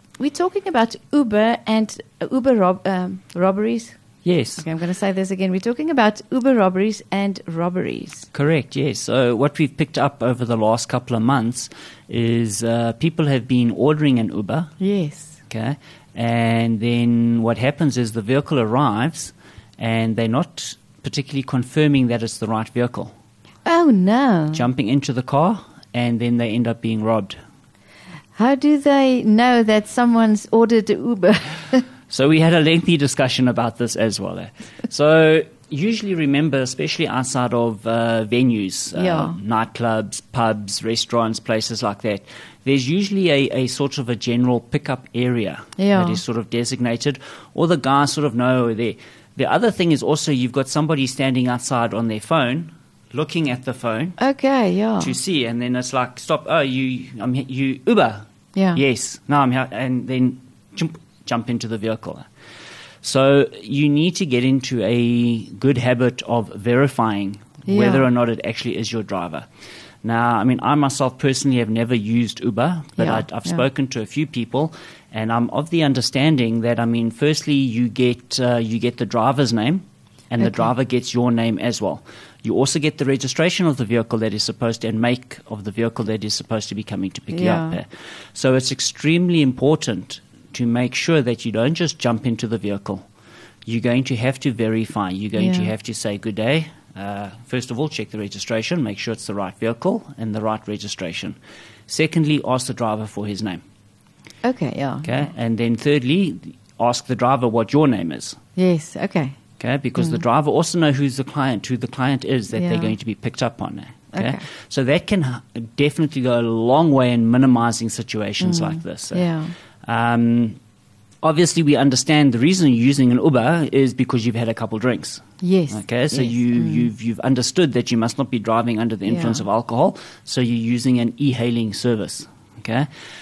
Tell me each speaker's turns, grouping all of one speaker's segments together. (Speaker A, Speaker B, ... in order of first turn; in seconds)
Speaker A: 0.2-4.0, 4.6-8.3, 14.8-15.4, 23.6-24.7, 28.4-31.8, 38.9-39.4, 45.8-46.2, 54.2-55.1, 58.5-58.8, 67.7-68.1, 73.0-73.6, 80.4-80.7, 87.3-87.8, 95.3-95.7, 104.4-105.2, 108.5-109.4, 110.0-110.2, 112.5-112.9, 114.1-114.4, 118.4-119.5, 125.4-126.9, 129.1-129.4
Speaker B: 4.2-4.6, 8.3-14.7, 15.5-23.1, 24.5-27.4, 32.1-54.2, 55.0-58.2, 58.7-62.3, 63.0-69.5, 70.0-93.0, 93.7-101.4, 101.9-103.6, 105.0-108.4, 109.6-119.3, 119.8-120.6, 121.2-132.9